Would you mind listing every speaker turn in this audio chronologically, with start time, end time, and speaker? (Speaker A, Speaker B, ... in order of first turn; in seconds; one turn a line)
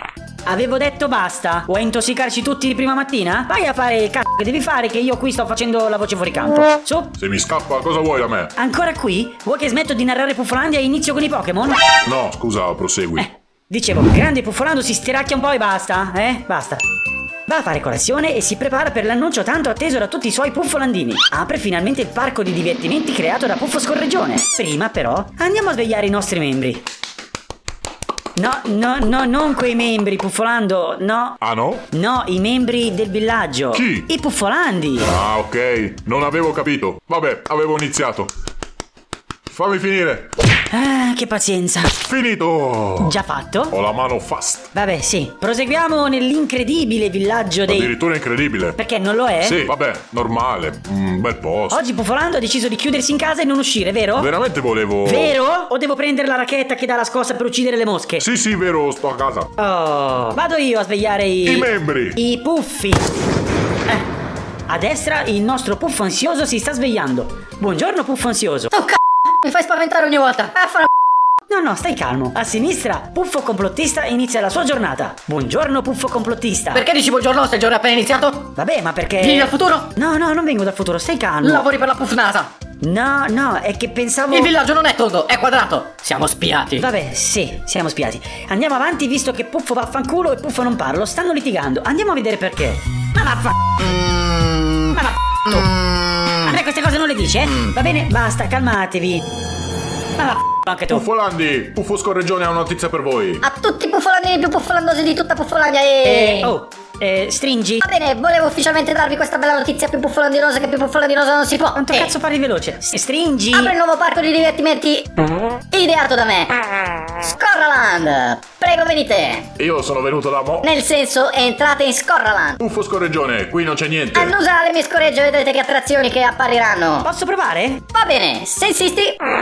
Speaker A: 0.4-7.1
Speaker B: 7.2-8.5
Speaker A: 8.6-11.8
Speaker B: 12.0-13.3
Speaker A: 13.2-16.8
Speaker A: 17.5-26.8
Speaker A: 28.4-31.4
Speaker B: 31.4-31.8
Speaker A: 31.9-35.1
Speaker B: 33.7-34.1
Speaker B: 35.0-38.3
Speaker B: 39.5-40.3
Speaker A: 40.7-41.9
Speaker B: 42.0-43.1
Speaker A: 43.0-43.8
Speaker B: 43.7-44.7
Speaker A: 44.7-48.0
Speaker B: 47.7-48.8
Speaker A: 48.8-49.7
Speaker B: 49.4-51.8
Speaker A: 51.7-54.3
Speaker B: 54.2-55.4
Speaker A: 55.0-58.2
Speaker B: 58.2-59.5
Speaker A: 59.8-63.0
Speaker B: 61.4-62.1
Speaker A: 64.7-68.7
Speaker C: 68.7-70.9
Speaker A: 71.5-76.8
Speaker C: 76.7-78.5
Speaker A: 78.5-81.7
Speaker C: 79.2-79.9
Speaker C: 81.4-82.5
Speaker A: 82.8-84.5
Speaker C: 84.3-86.9
Speaker A: 86.8-93.6
Speaker A: 94.9-95.7
Speaker A: 96.4-99.2
Speaker A: 100.2-101.0
Speaker B: 100.9-103.4
Speaker C: 103.4-106.5
Speaker A: 106.0-107.8
Speaker C: 107.8-112.1
Speaker A: 111.7-113.7
Speaker C: 113.5-115.0
Speaker C: 115.7-116.5
Speaker C: 117.2-119.5
Speaker B: 119.6-120.6
Speaker C: 120.6-122.6
Speaker B: 122.6-124.3
Speaker C: 124.1-127.1
Speaker A: 127.0-127.8
Speaker C: 127.9-129.2